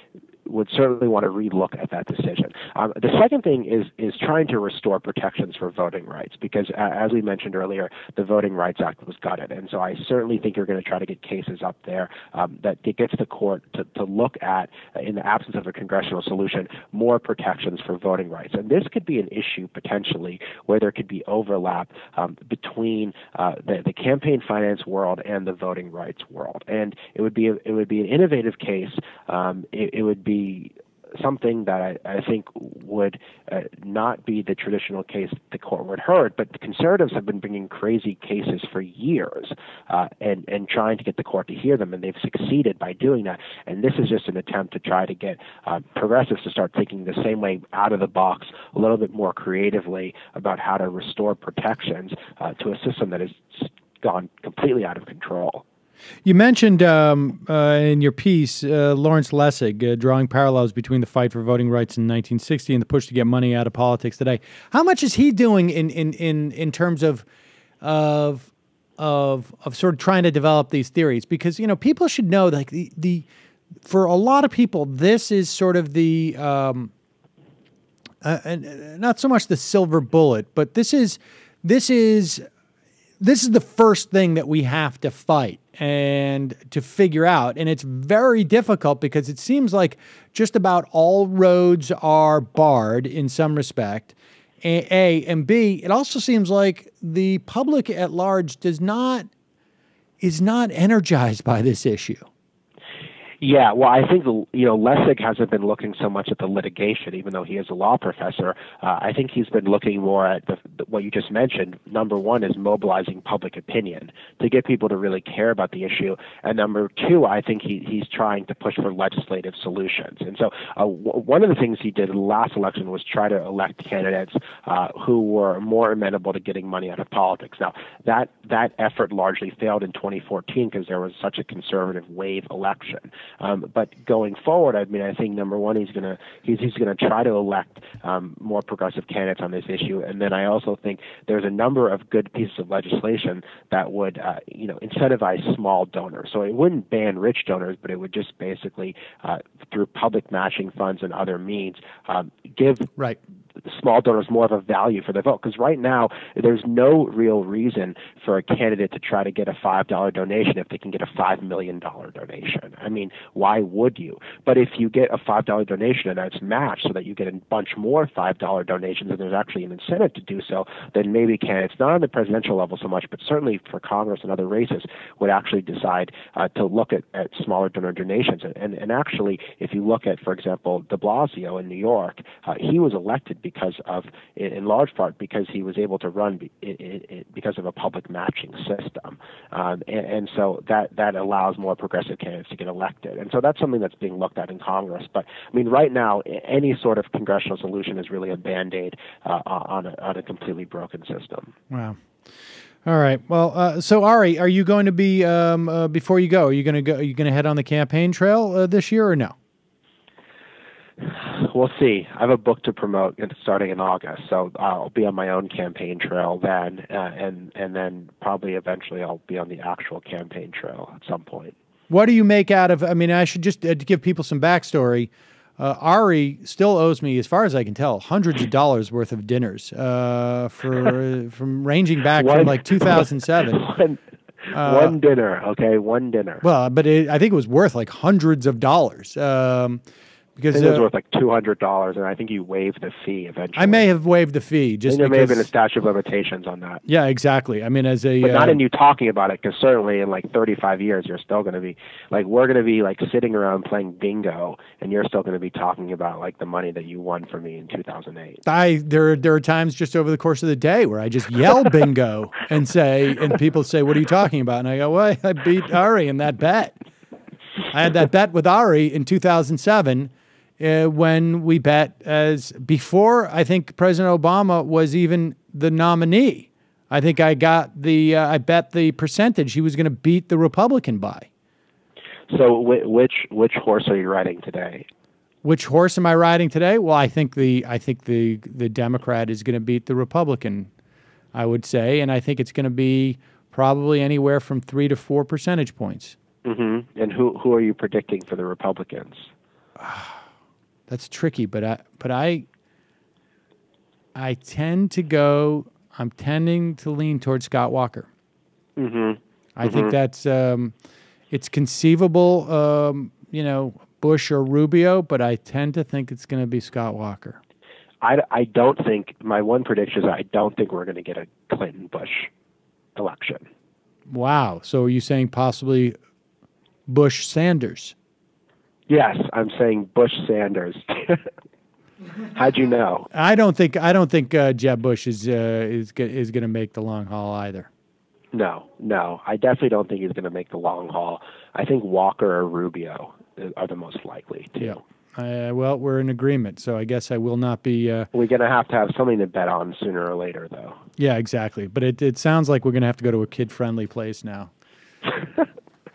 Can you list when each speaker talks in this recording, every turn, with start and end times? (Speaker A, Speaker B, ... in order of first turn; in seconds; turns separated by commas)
Speaker A: 0.5-55.6, Speaker B: 56.2-67.3, Speaker B: 67.8-73.3, Speaker B: 73.8-76.9, Speaker B: 78.2-82.5, Speaker B: 83.2-99.3, Speaker B: 100.2-102.3, Speaker A: 103.4-152.9, Speaker A: 153.6-201.5, Speaker B: 201.7-202.0, Speaker B: 202.8-209.3, Speaker A: 211.0-221.5, Speaker B: 221.9-233.6, Speaker A: 232.2-236.4, Speaker B: 234.5-235.0, Speaker B: 236.4-239.8, Speaker B: 240.4-240.9, Speaker A: 240.5-243.9, Speaker B: 243.6-245.5, Speaker A: 244.9-246.8, Speaker B: 246.9-248.6, Speaker A: 248.2-258.4, Speaker B: 258.5-266.8, Speaker B: 267.7-281.3, Speaker A: 282.3-284.9, Speaker B: 285.4-290.7, Speaker B: 291.3-296.2, Speaker A: 296.4-299.3, Speaker B: 299.8-300.2, Speaker B: 300.9-302.5, Speaker B: 304.1-308.1, Speaker A: 308.8-309.9, Speaker B: 309.6-310.7, Speaker B: 311.3-317.4, Speaker A: 318.0-322.3, Speaker A: 323.0-323.4, Speaker B: 324.1-326.0, Speaker B: 326.9-327.9, Speaker A: 328.9-331.3, Speaker A: 332.3-333.1, Speaker B: 333.1-337.7, Speaker A: 338.3-344.8, Speaker B: 344.6-348.1, Speaker A: 348.1-350.8, Speaker B: 351.0-354.5